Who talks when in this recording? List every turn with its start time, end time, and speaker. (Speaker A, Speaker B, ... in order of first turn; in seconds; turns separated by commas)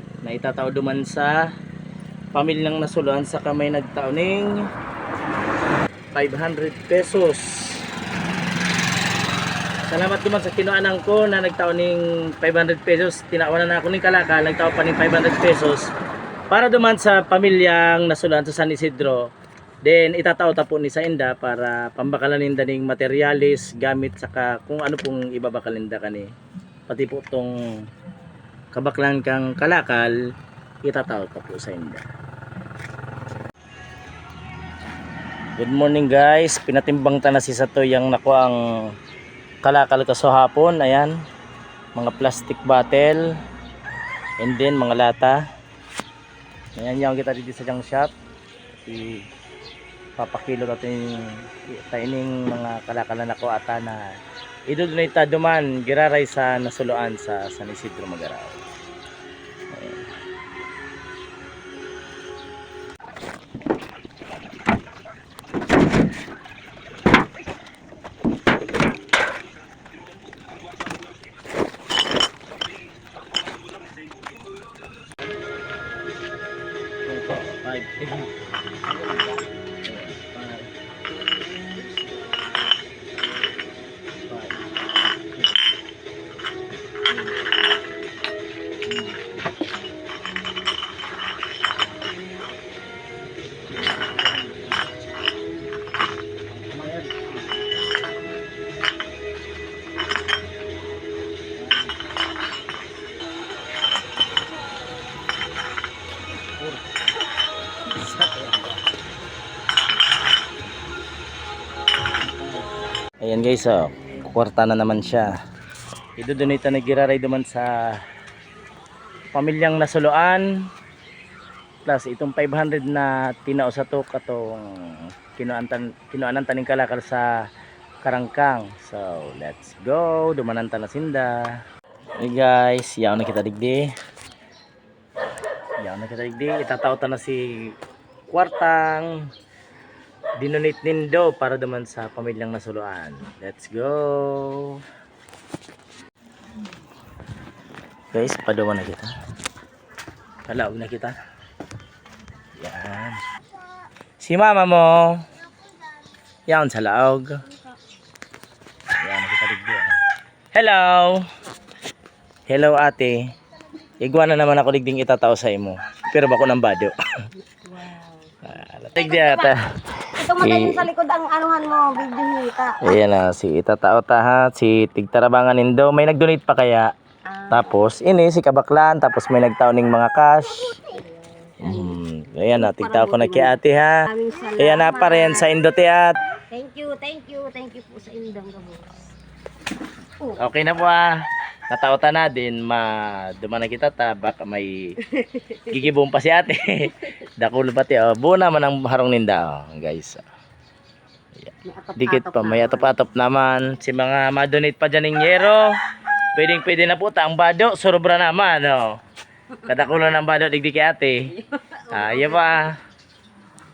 Speaker A: 0.2-1.4, Speaker A: 2.3-4.5, Speaker A: 6.1-7.8, Speaker A: 9.9-15.9, Speaker A: 16.5-19.2, Speaker A: 19.8-26.3, Speaker A: 26.9-27.5, Speaker A: 28.7-30.1, Speaker A: 30.8-32.0, Speaker A: 35.6-38.6, Speaker A: 39.6-41.1, Speaker A: 41.9-43.2, Speaker A: 44.4-45.4, Speaker A: 46.8-48.1, Speaker A: 48.9-49.2, Speaker A: 50.2-51.1, Speaker A: 51.7-54.1, Speaker A: 54.7-58.6, Speaker A: 59.7-60.0, Speaker A: 77.1-78.3, Speaker A: 78.9-80.7, Speaker A: 84.3-84.6, Speaker A: 96.7-97.3, Speaker A: 108.0-108.8, Speaker A: 113.2-115.3, Speaker A: 116.2-118.0, Speaker A: 119.3-120.5, Speaker A: 121.8-127.3, Speaker A: 128.0-131.4, Speaker A: 132.2-133.9, Speaker A: 135.8-137.4, Speaker A: 138.3-139.2, Speaker A: 140.4-144.8, Speaker A: 148.1-149.1, Speaker A: 150.5-151.2, Speaker A: 152.6-153.2, Speaker A: 154.2-155.2, Speaker A: 156.5-157.4, Speaker A: 159.0-159.9, Speaker A: 160.5-161.2, Speaker A: 162.5-163.2, Speaker A: 164.0-166.9, Speaker B: 167.4-168.4, Speaker A: 168.4-170.8, Speaker B: 168.9-169.6, Speaker B: 170.2-172.9, Speaker A: 172.8-176.9, Speaker B: 177.3-177.8, Speaker A: 177.5-180.8, Speaker B: 180.9-182.0, Speaker A: 181.6-184.0, Speaker B: 182.5-185.5, Speaker A: 184.6-186.2, Speaker B: 186.5-189.1, Speaker A: 190.4-191.1, Speaker A: 191.7-194.8, Speaker B: 195.1-195.8, Speaker A: 195.7-200.2, Speaker A: 201.4-205.6, Speaker B: 201.6-202.9, Speaker A: 206.3-208.9, Speaker A: 209.6-211.3, Speaker B: 211.6-212.5, Speaker A: 211.9-212.7